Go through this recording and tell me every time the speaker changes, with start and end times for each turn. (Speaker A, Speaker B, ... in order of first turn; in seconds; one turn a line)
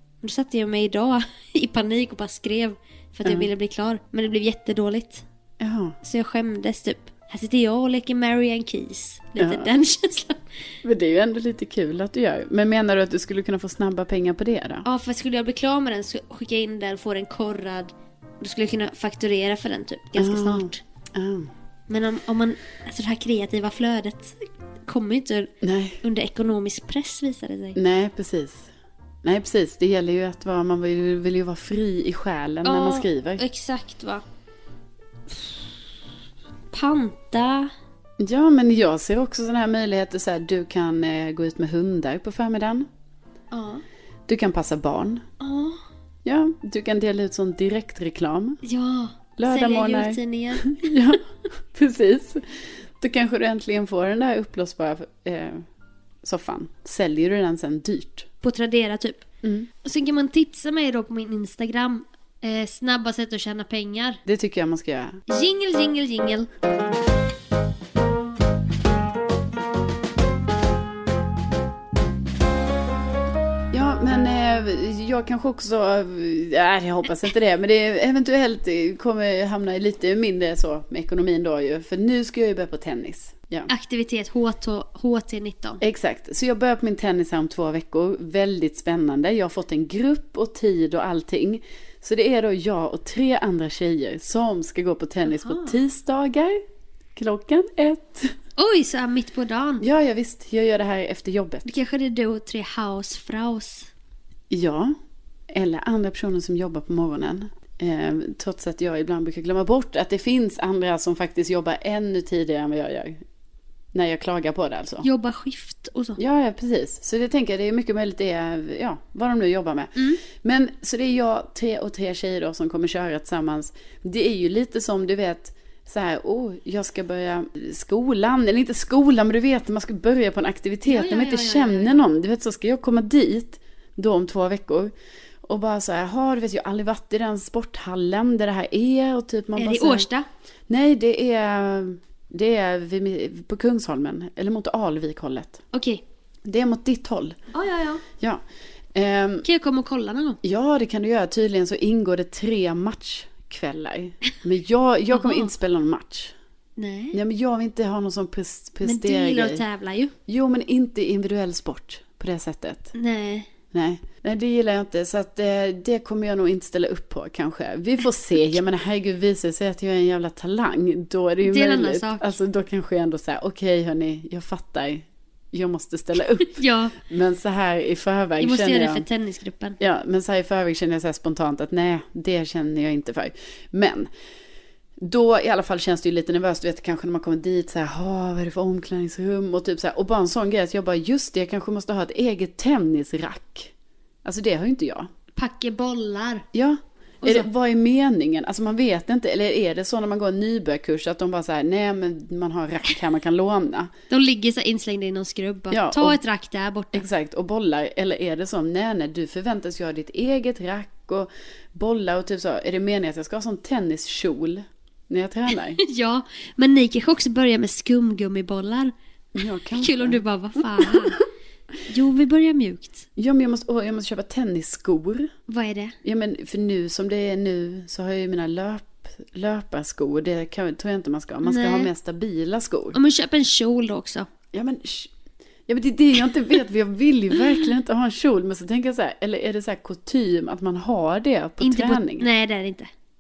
Speaker A: 0.2-5.2
Speaker B: 3.2-3.5
Speaker B: 5.6-6.0
Speaker A: 6.0-10.4
Speaker B: 9.4-9.7
Speaker B: 10.8-14.8
Speaker A: 14.8-20.8
Speaker B: 20.1-21.5
Speaker A: 21.9-25.5
Speaker B: 25.6-26.0
Speaker A: 26.0-27.8
Speaker B: 27.8-28.7
Speaker B: 29.2-33.4
Speaker A: 32.6-34.2
Speaker A: 36.7-37.7
Speaker B: 38.2-42.9
Speaker A: 43.5-43.8
Speaker B: 44.3-45.2
Speaker A: 45.4-45.8
Speaker B: 46.2-48.6
Speaker A: 48.6-50.9
Speaker B: 49.4-51.2
Speaker B: 51.7-55.7
Speaker B: 56.2-58.3
Speaker A: 58.4-59.2
Speaker B: 59.4-59.7
Speaker A: 59.8-64.2
Speaker B: 64.3-65.2
Speaker A: 65.3-66.5
Speaker B: 73.7-83.7
Speaker A: 83.7-85.8
Speaker B: 85.8-96.6
Speaker A: 95.2-95.8
Speaker B: 97.2-98.3
Speaker A: 98.6-99.8
Speaker B: 99.8-101.7
Speaker A: 101.6-103.9
Speaker B: 104.5-105.0
Speaker B: 105.5-113.2
Speaker B: 113.9-115.1
Speaker A: 115.0-116.2
Speaker B: 116.2-140.1
Speaker A: 120.0-120.2
Speaker A: 130.8-132.1
Speaker A: 139.6-140.3
Speaker B: 140.7-145.6
Speaker A: 145.7-146.0
Speaker B: 146.5-147.4
Speaker A: 147.5-148.0
Speaker B: 148.1-149.4
Speaker A: 149.4-150.4
Speaker B: 150.4-156.3
Speaker A: 155.1-155.5
Speaker A: 156.8-157.2
Speaker B: 157.1-159.6
Speaker A: 158.8-160.1
Speaker B: 160.3-162.9
Speaker A: 162.9-163.5
Speaker B: 163.7-179.1
Speaker A: 171.4-172.3
Speaker A: 176.5-177.0
Speaker A: 178.4-179.8
Speaker B: 179.8-184.1
Speaker B: 185.0-193.7
Speaker B: 194.2-195.1
Speaker A: 195.4-196.4
Speaker B: 196.5-203.9
Speaker A: 197.2-197.5
Speaker A: 204.1-207.1
Speaker B: 205.7-206.2
Speaker B: 206.9-215.8
Speaker A: 215.8-218.9
Speaker B: 219.3-221.2
Speaker A: 219.8-221.2
Speaker A: 221.9-223.1
Speaker B: 223.2-225.3
Speaker A: 225.5-225.9
Speaker B: 226.0-233.0
Speaker A: 231.4-231.9
Speaker A: 232.9-234.3
Speaker B: 234.5-235.1
Speaker B: 235.7-242.3
Speaker A: 241.6-242.9